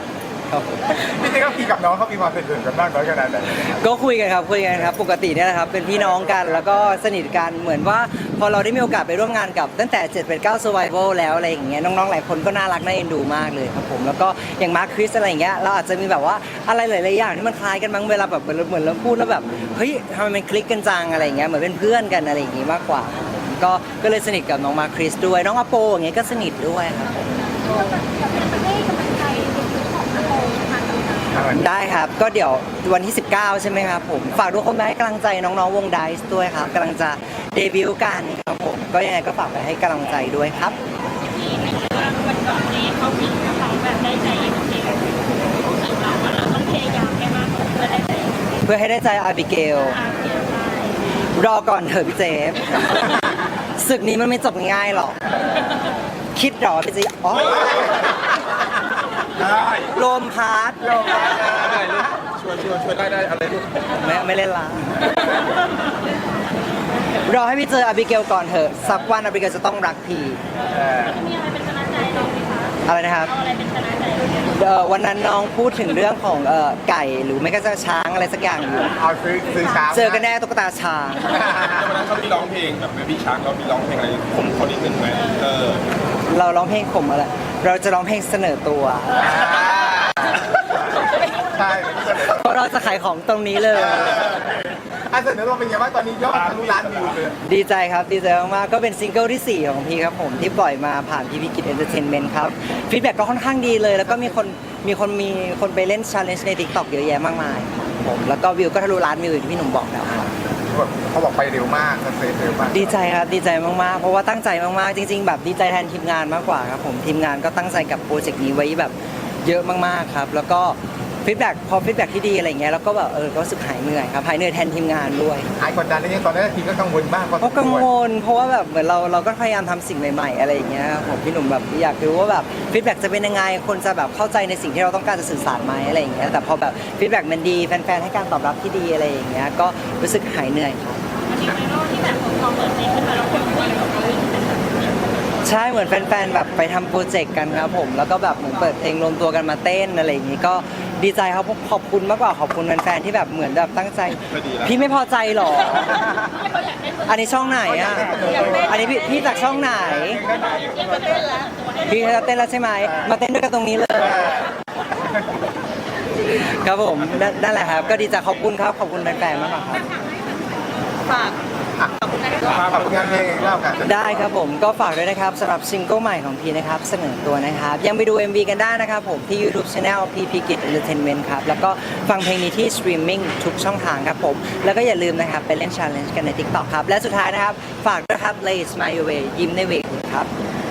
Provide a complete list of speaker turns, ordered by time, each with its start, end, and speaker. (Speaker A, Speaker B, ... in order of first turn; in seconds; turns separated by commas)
Speaker A: 0.5-1.0, Speaker B: 1.0-3.8, Speaker A: 3.7-27.3, Speaker C: 27.6-31.3, Speaker B: 31.3-31.7, Speaker A: 31.5-40.8, Speaker D: 41.2-48.5, Speaker A: 48.6-50.0, Speaker D: 49.9-51.0, Speaker A: 51.4-55.2, Speaker A: 56.4-58.2, Speaker E: 59.3-59.9, Speaker A: 59.9-61.3, Speaker B: 61.1-61.5, Speaker E: 61.5-63.9, Speaker A: 64.0-65.2, Speaker A: 67.2-70.4, Speaker D: 70.5-74.5, Speaker B: 70.7-71.1, Speaker A: 72.9-73.4, Speaker A: 74.5-79.0, Speaker B: 79.0-80.3, Speaker A: 79.8-81.6, Speaker E: 81.4-86.0, Speaker A: 86.3-89.5, Speaker B: 89.2-90.4, Speaker B: 91.4-92.5, Speaker A: 92.3-94.5, Speaker B: 95.0-97.4, Speaker A: 97.4-110.3, Speaker B: 110.7-113.0, Speaker A: 112.7-125.5, Speaker B: 125.6-127.9, Speaker A: 127.4-141.0, Speaker D: 141.3-144.9, Speaker A: 145.4-156.2, Speaker E: 154.3-154.8, Speaker A: 157.1-160.3, Speaker D: 160.3-161.9, Speaker A: 161.9-164.4, Speaker A: 166.3-169.9, Speaker B: 171.8-174.3, Speaker E: 172.4-173.7, Speaker A: 173.8-190.3